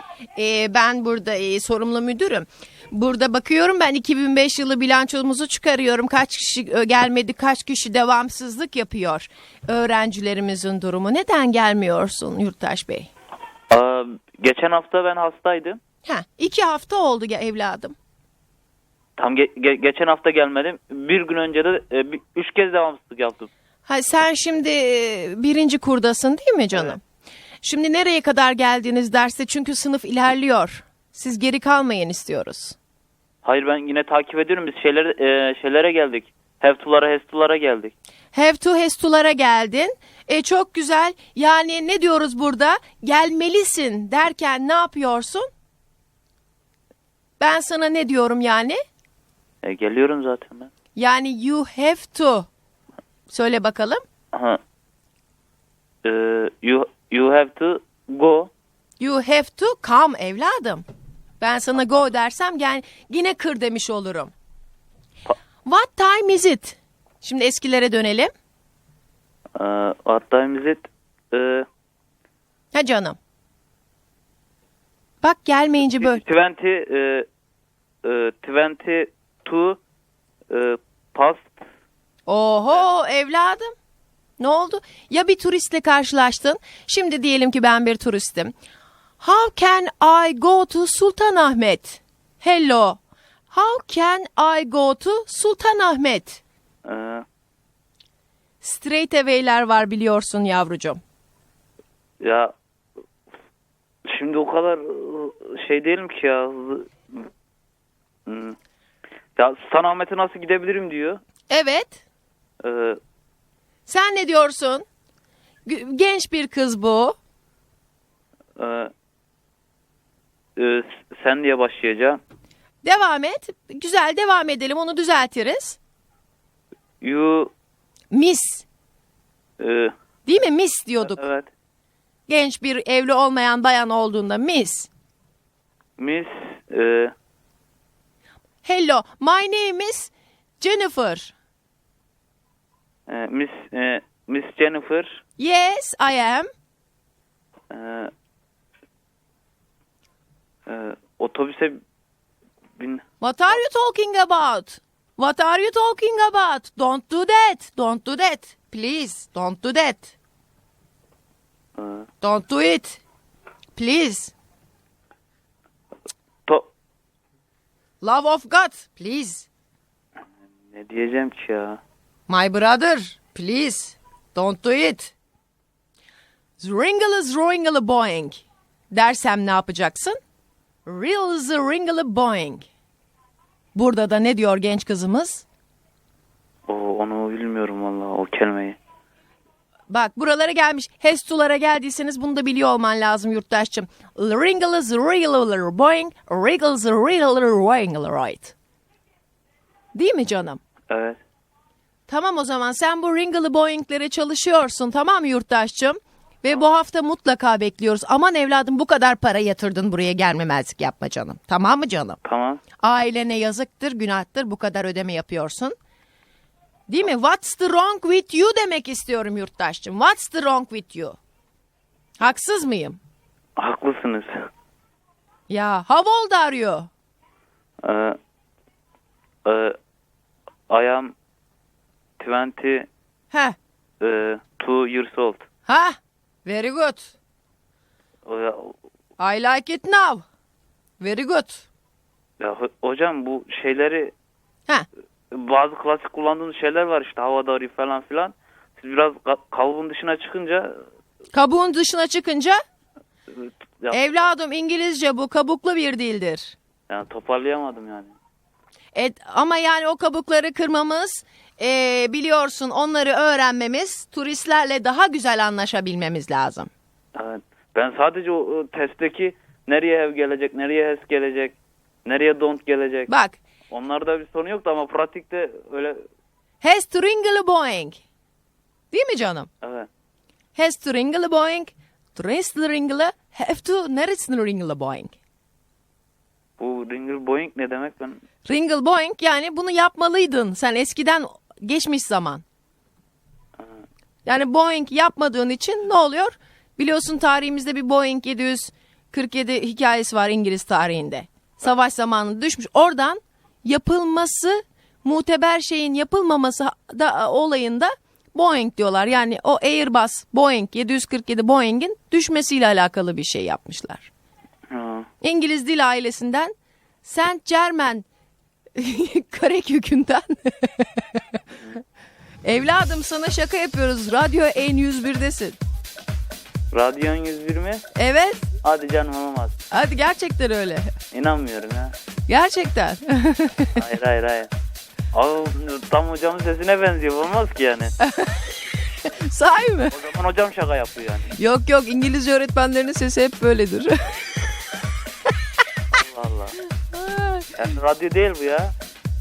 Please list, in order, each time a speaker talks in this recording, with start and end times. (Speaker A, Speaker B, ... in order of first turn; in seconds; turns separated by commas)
Speaker A: 0.4-13.1, Speaker B: 13.7-15.8, Speaker A: 16.1-17.9, Speaker B: 19.2-23.5, Speaker A: 23.9-27.0, Speaker A: 27.6-32.8, Speaker B: 33.4-37.9, Speaker A: 38.3-45.5, Speaker A: 47.4-48.8, Speaker B: 49.6-50.7, Speaker A: 51.0-52.5, Speaker A: 53.3-54.0, Speaker B: 54.3-54.6, Speaker B: 56.0-58.5, Speaker A: 59.0-60.9, Speaker A: 61.4-64.3, Speaker A: 65.7-68.3, Speaker B: 69.6-71.7, Speaker A: 72.7-73.2, Speaker A: 75.2-76.2, Speaker B: 75.9-77.3, Speaker B: 78.0-79.8, Speaker B: 80.5-81.7, Speaker A: 82.3-83.7, Speaker A: 84.4-88.5, Speaker A: 89.2-93.0, Speaker A: 93.5-96.4, Speaker B: 96.8-97.2, Speaker A: 98.6-101.0, Speaker B: 102.2-102.5, Speaker B: 104.0-107.2, Speaker B: 108.2-108.6, Speaker B: 109.3-111.2, Speaker A: 111.5-112.0, Speaker B: 112.6-113.0, Speaker A: 113.9-114.8, Speaker A: 115.7-117.2, Speaker B: 118.6-118.9, Speaker B: 120.6-122.2, Speaker A: 122.8-125.8, Speaker B: 127.0-127.5, Speaker A: 128.1-128.6, Speaker B: 129.6-129.9, Speaker A: 130.3-131.2, Speaker B: 131.0-131.5, Speaker A: 132.3-134.9, Speaker B: 136.0-137.1, Speaker A: 138.6-141.3, Speaker B: 143.1-145.2, Speaker A: 145.4-146.5, Speaker B: 147.7-148.1, Speaker B: 150.7-151.8, Speaker B: 152.8-153.0, Speaker A: 153.2-160.1, Speaker B: 161.8-162.1, Speaker A: 162.2-163.0, Speaker A: 163.8-164.3, Speaker B: 166.4-166.7, Speaker A: 168.0-169.5, Speaker B: 170.7-171.8, Speaker A: 172.3-175.1, Speaker A: 176.6-180.2, Speaker A: 180.8-182.6, Speaker A: 183.8-185.4, Speaker B: 186.7-188.8, Speaker A: 189.9-198.5, Speaker A: 199.9-200.6, Speaker B: 200.9-201.2, Speaker A: 202.1-212.2, Speaker B: 212.2-212.6, Speaker A: 212.8-215.8, Speaker A: 216.9-221.2, Speaker A: 222.2-223.0, Speaker B: 223.6-224.5, Speaker A: 225.5-226.9, Speaker B: 227.8-228.2, Speaker B: 229.4-229.8, Speaker B: 230.7-231.1, Speaker B: 232.2-232.9, Speaker B: 234.0-235.4, Speaker A: 235.7-237.1, Speaker B: 238.2-238.8, Speaker A: 239.2-240.2, Speaker A: 241.0-241.6, Speaker B: 242.4-244.1, Speaker B: 245.3-250.8, Speaker A: 251.3-252.6, Speaker B: 253.3-254.3, Speaker A: 253.9-256.6, Speaker B: 256.9-258.1, Speaker A: 258.9-266.7, Speaker B: 267.1-273.1, Speaker A: 273.1-273.4, Speaker B: 273.7-276.1, Speaker A: 276.6-278.0, Speaker A: 278.9-279.5, Speaker B: 279.6-279.9, Speaker A: 280.6-285.1, Speaker B: 286.6-288.2, Speaker A: 288.4-292.4, Speaker A: 294.2-314.1, Speaker B: 314.7-315.1, Speaker A: 315.2-316.5, Speaker A: 317.0-318.1, Speaker A: 318.8-321.4, Speaker A: 322.4-325.6, Speaker B: 326.7-327.8, Speaker A: 327.9-328.5, Speaker B: 328.6-329.6, Speaker A: 329.7-330.9, Speaker B: 331.1-331.9, Speaker A: 332.3-333.8, Speaker B: 333.8-334.5, Speaker B: 335.1-337.9, Speaker A: 338.0-339.9, Speaker B: 339.9-341.3, Speaker A: 341.3-344.2, Speaker B: 345.9-346.6, Speaker A: 346.9-347.6, Speaker B: 347.6-348.7